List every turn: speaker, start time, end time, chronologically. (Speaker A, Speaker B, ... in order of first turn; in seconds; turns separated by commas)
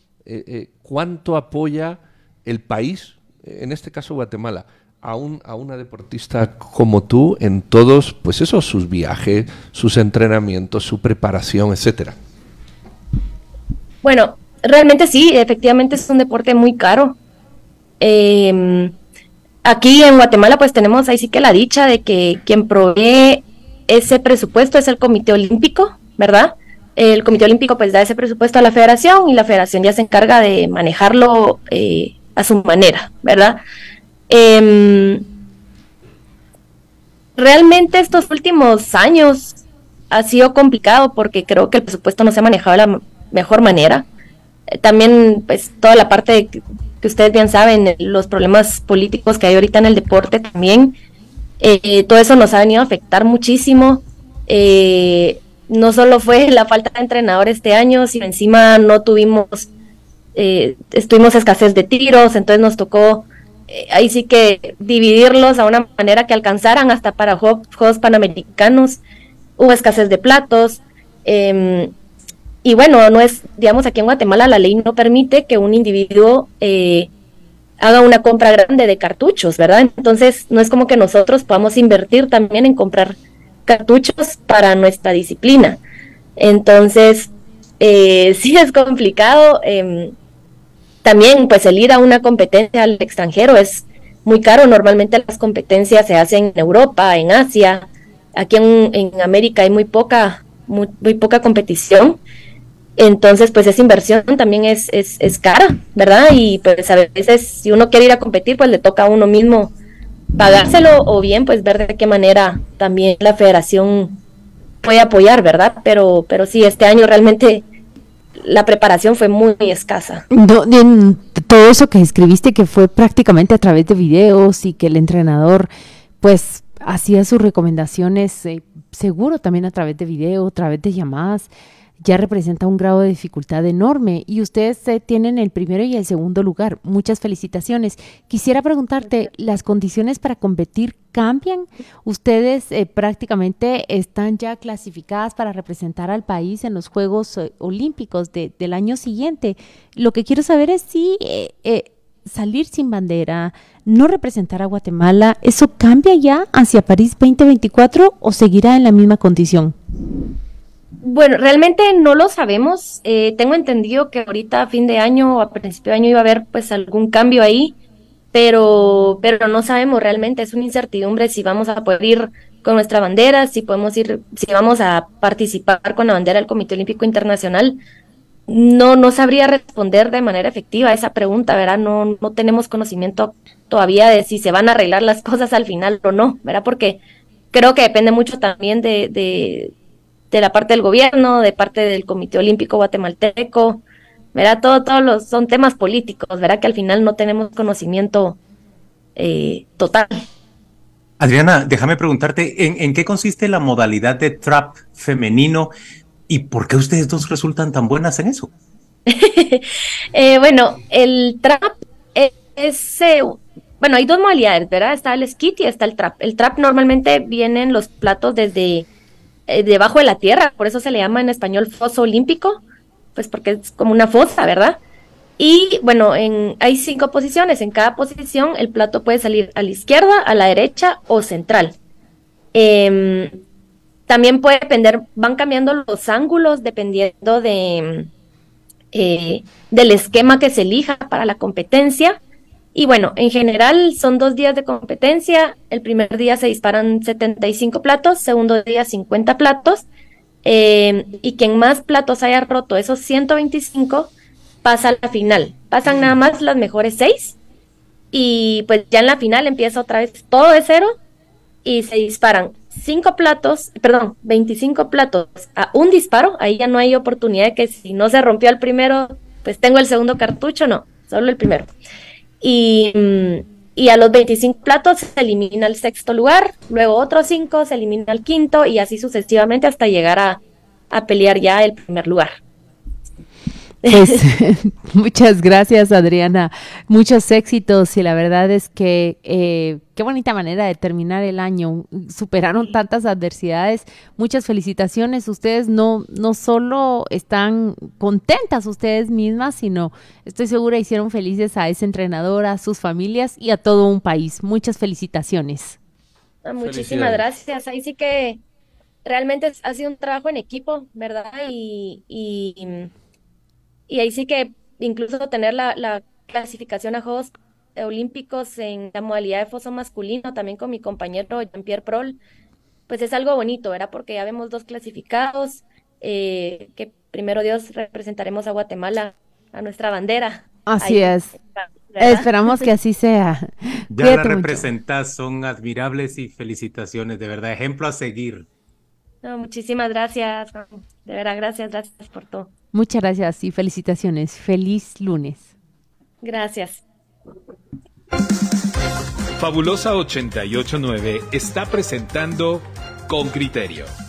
Speaker A: 0.2-12.2, Speaker B: 14.0-17.2, Speaker B: 18.0-18.9, Speaker B: 19.6-33.6, Speaker B: 34.3-35.2, Speaker B: 37.4-39.6, Speaker B: 40.1-44.0, Speaker B: 44.7-51.0, Speaker B: 51.6-59.7, Speaker B: 60.3-69.0, Speaker B: 69.6-71.9, Speaker B: 72.6-77.1, Speaker B: 77.8-85.8, Speaker B: 86.4-90.2, Speaker B: 91.0-102.2, Speaker B: 103.0-109.7, Speaker B: 110.3-114.2, Speaker B: 114.8-117.6, Speaker B: 118.4-120.2, Speaker C: 120.3-125.7, Speaker C: 126.2-159.7, Speaker B: 161.0-167.8, Speaker B: 168.3-177.8, Speaker B: 178.5-187.0, Speaker B: 187.5-189.7, Speaker B: 190.3-193.8, Speaker B: 194.3-198.4, Speaker B: 199.2-200.2, Speaker D: 201.2-205.7, Speaker D: 206.3-208.5, Speaker B: 209.1-218.9, Speaker B: 219.5-222.6, Speaker B: 223.1-224.8, Speaker B: 225.4-231.8, Speaker B: 232.5-233.3, Speaker B: 234.1-238.1, Speaker B: 238.9-242.2, Speaker B: 242.7-249.8, Speaker B: 250.4-254.1, Speaker B: 254.6-257.4, Speaker B: 258.1-261.0, Speaker B: 261.6-271.7, Speaker B: 272.4-282.3, Speaker B: 283.8-284.2, Speaker C: 283.9-305.8, Speaker B: 306.4-308.4, Speaker A: 306.6-307.2, Speaker B: 309.0-312.9, Speaker B: 313.9-322.2, Speaker B: 322.9-332.7, Speaker C: 330.6-331.3, Speaker C: 332.0-334.7, Speaker D: 333.9-338.5, Speaker B: 339.2-342.5, Speaker C: 342.7-345.5, Speaker B: 346.2-346.8, Speaker E: 349.4-353.9